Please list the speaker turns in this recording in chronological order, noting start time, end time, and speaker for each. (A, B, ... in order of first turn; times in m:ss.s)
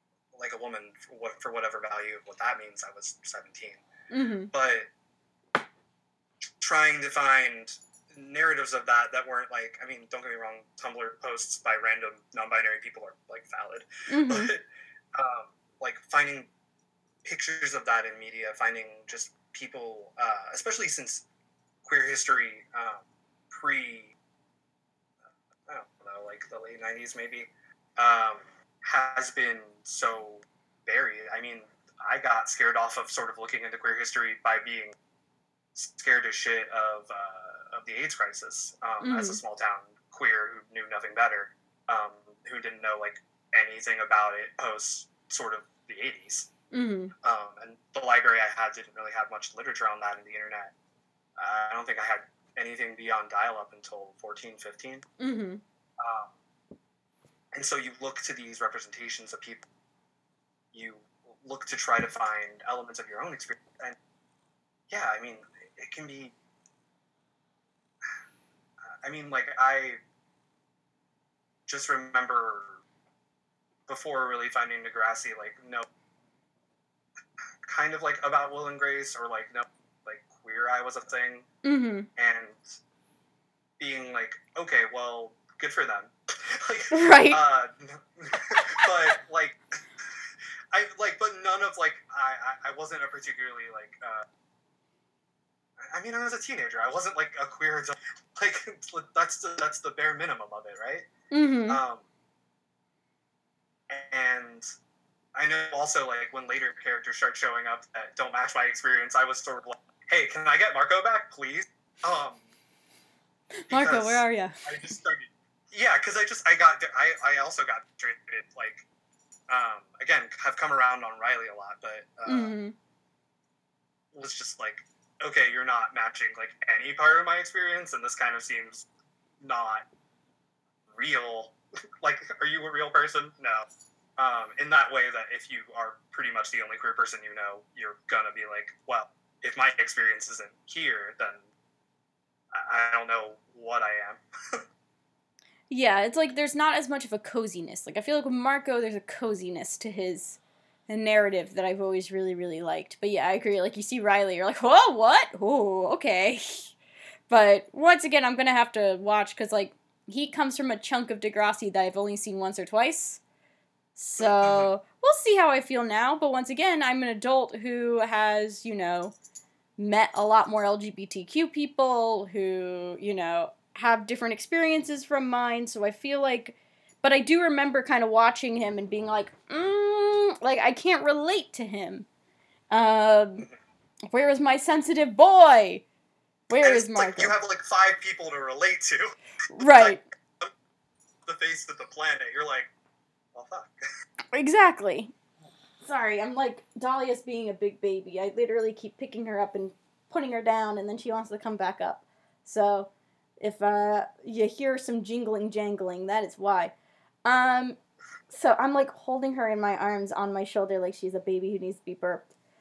0:00.3-0:03.8 A
0:04.1-0:04.5 B
0:04.5-0:04.9 A
0:06.6-0:14.6 A
0:14.1-0:14.5 B
0:15.1-0:16.5 A
0:17.2-0:21.2 A
0:21.8-0:24.1 A
0:25.7-0:34.9 A
0:35.7-0:46.5 A
0:39.0-0:39.4 B
0:46.7-0:47.1 B
0:47.2-0:50.7 A
0:51.4-0:55.0 A
0:55.2-0:55.6 B
0:56.0-0:56.3 A
0:57.5-0:59.6 A
1:00.7-1:04.0 A
1:04.9-1:06.3 A
1:09.0-1:10.0 A
1:11.7-1:12.8 A
1:13.9-1:15.8 A
1:17.7-1:21.4 A
1:21.6-1:22.1 B
1:22.2-1:22.7 A
1:23.8-1:29.6 A
1:26.9-1:27.4 B
1:30.7-1:34.2 A
1:35.9-1:41.1 A
1:41.3-1:41.8 B
1:41.7-1:42.0 A
1:43.9-1:44.7 A
1:45.3-1:52.4 A
1:53.7-1:54.6 B
1:53.7-1:58.8 A
1:59.5-2:02.5 A
2:02.3-2:02.7 B
2:04.1-2:08.8 A
2:09.4-2:09.8 A
2:10.9-2:13.6 A
2:14.2-2:21.4 A
2:22.5-2:24.6 A
2:25.7-2:36.7 B
2:37.3-2:43.2 B
2:44.0-2:49.1 B
2:44.2-2:44.7 A
2:49.8-3:02.1 B
3:02.7-3:03.5 B
3:04.1-3:05.8 B
3:06.5-3:07.3 B
3:06.6-3:10.5 A
3:09.5-3:10.0 B
3:11.2-3:12.7 A
3:13.3-3:13.8 A
3:14.3-3:15.1 B
3:15.8-3:22.9 B
3:23.4-3:26.7 B
3:27.2-3:27.8 B
3:28.3-3:32.2 B